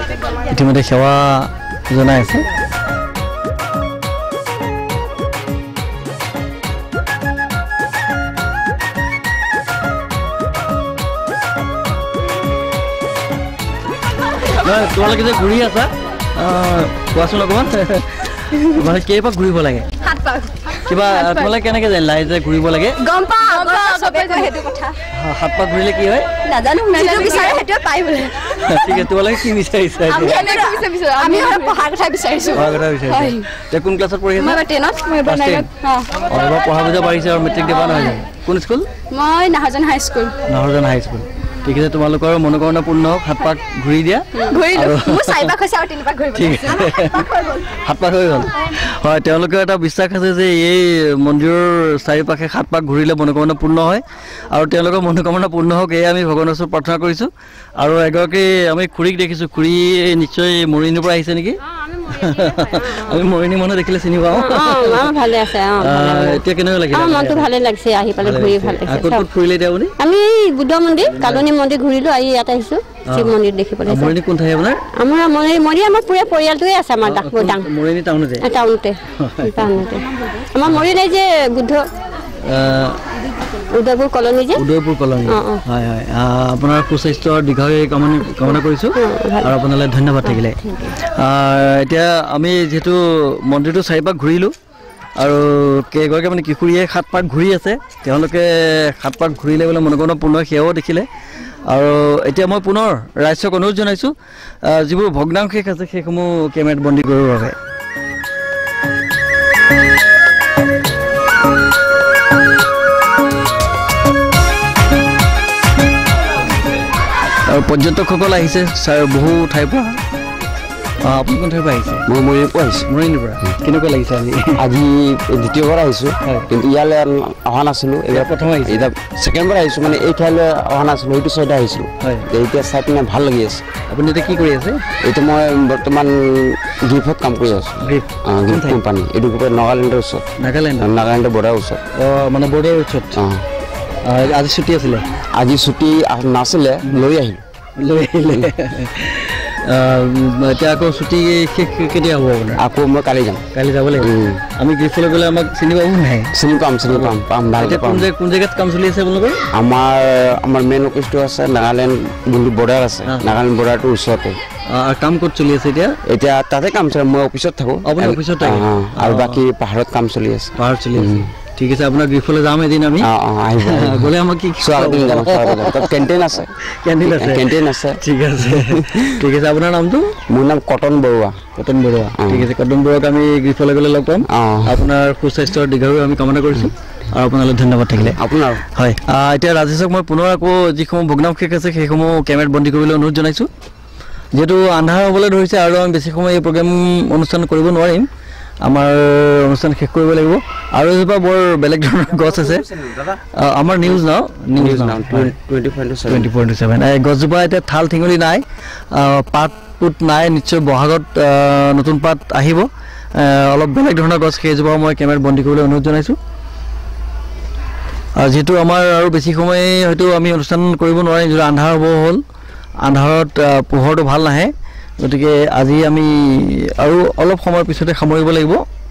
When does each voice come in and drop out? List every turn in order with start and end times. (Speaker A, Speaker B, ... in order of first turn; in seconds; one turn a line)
Speaker A: 0.5-2.5
Speaker A: 14.5-19.9
Speaker B: 20.0-21.5
Speaker A: 20.9-23.0
Speaker B: 23.0-25.0
Speaker A: 25.1-26.3
Speaker B: 26.4-29.1
Speaker A: 27.1-27.4
Speaker A: 28.6-31.5
Speaker B: 30.1-33.5
Speaker A: 32.5-34.7
Speaker B: 34.4-36.1
Speaker A: 35.2-35.7
Speaker A: 36.3-38.9
Speaker B: 39.1-40.4
Speaker A: 40.5-45.6
Speaker B: 44.4-47.6
Speaker A: 46.3-65.2
Speaker C: 64.3-66.4
Speaker A: 65.8-67.5
Speaker C: 66.9-69.3
Speaker A: 68.2-69.9
Speaker C: 70.0-74.2
Speaker A: 71.1-71.5
Speaker A: 73.1-73.3
Speaker A: 73.9-74.8
Speaker C: 75.0-77.7
Speaker A: 77.0-78.5
Speaker C: 78.4-81.8
Speaker A: 79.2-79.7
Speaker A: 82.4-83.0
Speaker C: 83.8-84.6
Speaker A: 84.5-94.5
Speaker C: 85.3-85.6
Speaker C: 89.0-89.5
Speaker A: 95.2-101.1
Speaker A: 101.7-107.6
Speaker A: 117.5-120.0
Speaker A: 121.0-122.0
Speaker D: 122.1-122.9
Speaker A: 122.9-124.6
Speaker D: 124.6-133.6
Speaker A: 128.1-128.9
Speaker A: 132.0-132.3
Speaker A: 133.9-134.8
Speaker D: 135.0-140.3
Speaker A: 137.8-138.8
Speaker A: 140.4-140.9
Speaker D: 140.8-141.8
Speaker A: 142.0-143.2
Speaker D: 143.2-143.4
Speaker A: 144.0-145.0
Speaker D: 145.4-147.4
Speaker A: 147.8-152.6
Speaker D: 152.6-153.4
Speaker A: 153.5-156.3
Speaker D: 154.0-154.4
Speaker D: 156.4-158.1
Speaker A: 156.9-159.4
Speaker D: 159.6-164.4
Speaker A: 163.1-163.3
Speaker A: 164.7-166.0
Speaker D: 166.1-171.3
Speaker A: 167.8-169.4
Speaker A: 170.6-173.1
Speaker D: 173.0-179.1
Speaker A: 173.6-176.0
Speaker A: 176.7-180.2
Speaker D: 180.3-181.5
Speaker A: 181.6-188.2
Speaker D: 182.2-182.5
Speaker D: 184.3-184.8
Speaker D: 188.0-188.6
Speaker A: 188.7-193.5
Speaker A: 194.3-198.1
Speaker A: 198.7-202.7
Speaker D: 202.1-203.2
Speaker A: 203.3-205.4
Speaker D: 204.6-206.3
Speaker A: 206.1-216.2
Speaker A: 218.2-222.2
Speaker A: 222.8-228.6